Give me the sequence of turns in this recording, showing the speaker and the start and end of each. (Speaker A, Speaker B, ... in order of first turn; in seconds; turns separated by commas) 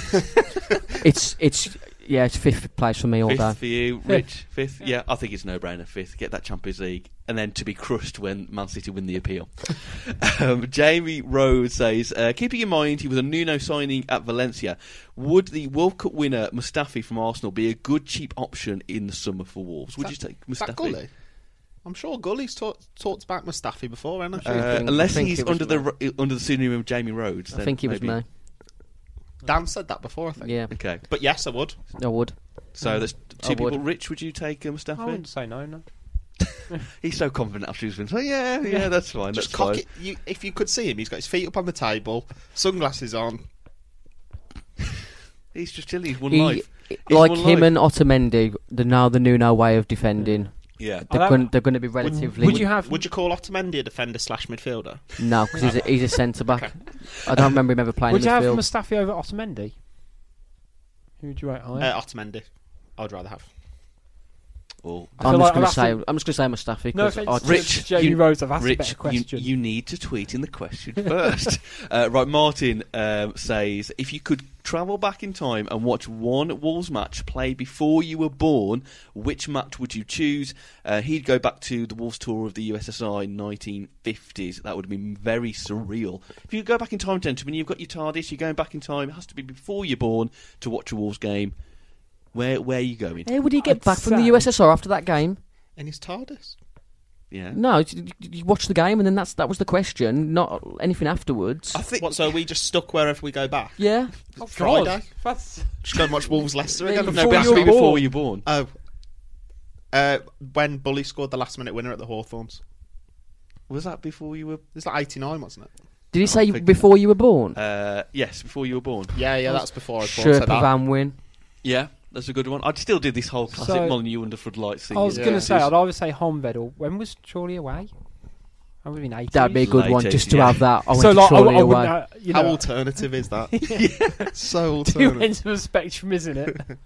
Speaker A: 0.9-3.6, Speaker B: 3.2-21.0, Speaker C: 20.0-21.1, Speaker C: 21.8-24.9, Speaker A: 24.4-25.9, Speaker B: 24.4-28.2, Speaker A: 27.5-28.3, Speaker C: 29.4-31.8, Speaker A: 30.4-31.1, Speaker B: 30.7-31.0, Speaker A: 31.9-33.8, Speaker B: 32.7-35.3, Speaker D: 32.8-33.1, Speaker D: 35.0-36.8, Speaker B: 37.0-39.8, Speaker C: 39.3-43.5, Speaker B: 45.5-47.7, Speaker A: 46.3-52.7, Speaker D: 50.2-53.0, Speaker B: 50.8-51.1, Speaker C: 52.0-56.9, Speaker A: 55.2-58.6, Speaker D: 58.1-59.7, Speaker D: 61.2-61.9, Speaker C: 61.8-63.5, Speaker B: 64.8-65.2, Speaker A: 65.2-67.8, Speaker D: 65.2-66.0, Speaker D: 66.9-69.5, Speaker B: 67.4-91.5, Speaker B: 92.3-93.3, Speaker A: 93.2-95.4, Speaker D: 93.6-94.5, Speaker C: 95.8-96.6, Speaker B: 97.3-97.6, Speaker A: 97.5-101.8, Speaker B: 101.7-102.2, Speaker C: 102.0-108.7, Speaker A: 103.8-104.1, Speaker D: 104.4-106.3, Speaker A: 106.7-108.0, Speaker B: 107.0-108.5, Speaker C: 109.9-112.6, Speaker B: 113.7-114.7, Speaker C: 114.7-115.7, Speaker A: 116.1-117.6, Speaker B: 116.2-116.8, Speaker B: 117.5-119.2, Speaker C: 119.1-120.7, Speaker A: 119.4-121.2, Speaker B: 121.6-125.7, Speaker D: 123.5-124.0, Speaker D: 124.9-129.8, Speaker C: 125.1-125.5, Speaker A: 129.3-132.0, Speaker B: 129.6-130.8, Speaker D: 130.9-136.7, Speaker C: 132.3-135.3, Speaker B: 133.7-134.2